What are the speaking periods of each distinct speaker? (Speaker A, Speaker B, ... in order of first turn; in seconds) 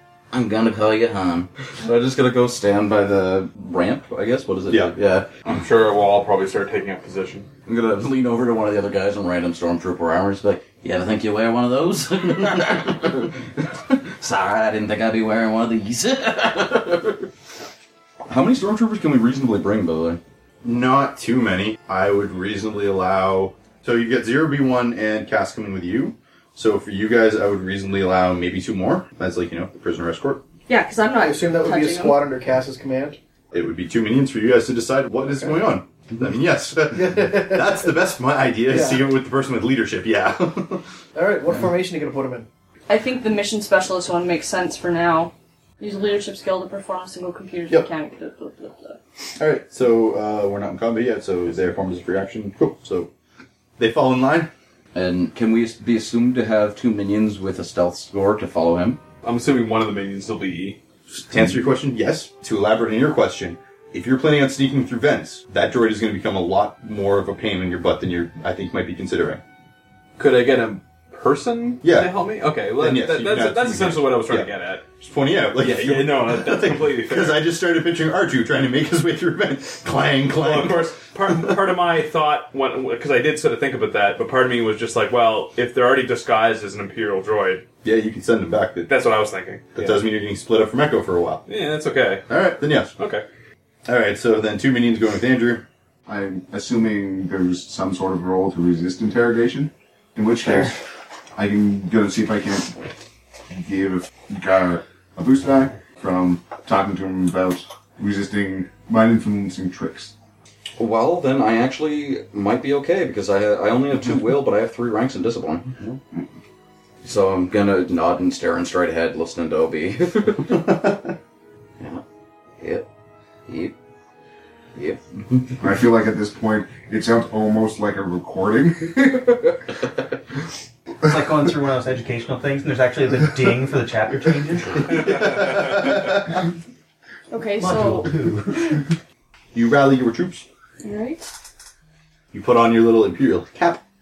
Speaker A: 0.3-5.3, 7.7-17.2, 18.3-20.2, 54.9-59.0, 110.8-115.8, 117.0-120.9, 122.6-122.9, 123.5-123.7, 124.8-125.6
Speaker B: 5.5-7.5, 59.2-60.8, 70.2-74.9, 75.6-77.4, 80.4-87.7, 88.9-90.0, 91.5-92.3, 93.0-93.2
Speaker C: 20.6-30.4, 33.5-40.8, 49.4-53.1, 53.8-54.5, 61.2-69.4, 71.8-72.1, 72.8-74.5, 75.0-80.9, 87.8-88.9, 89.8-91.4, 92.3-92.9, 93.9-95.6, 134.9-136.2, 139.5-140.4, 142.3-143.8
Speaker D: 30.7-32.2, 42.9-49.0, 137.3-138.1, 140.8-141.2
Speaker E: 31.2-33.2, 36.9-37.9, 38.7-39.1, 41.1-42.5
Speaker F: 96.1-100.7, 101.4-102.7, 103.5-110.1, 125.6-129.3
Speaker G: 131.0-135.1, 137.6-138.8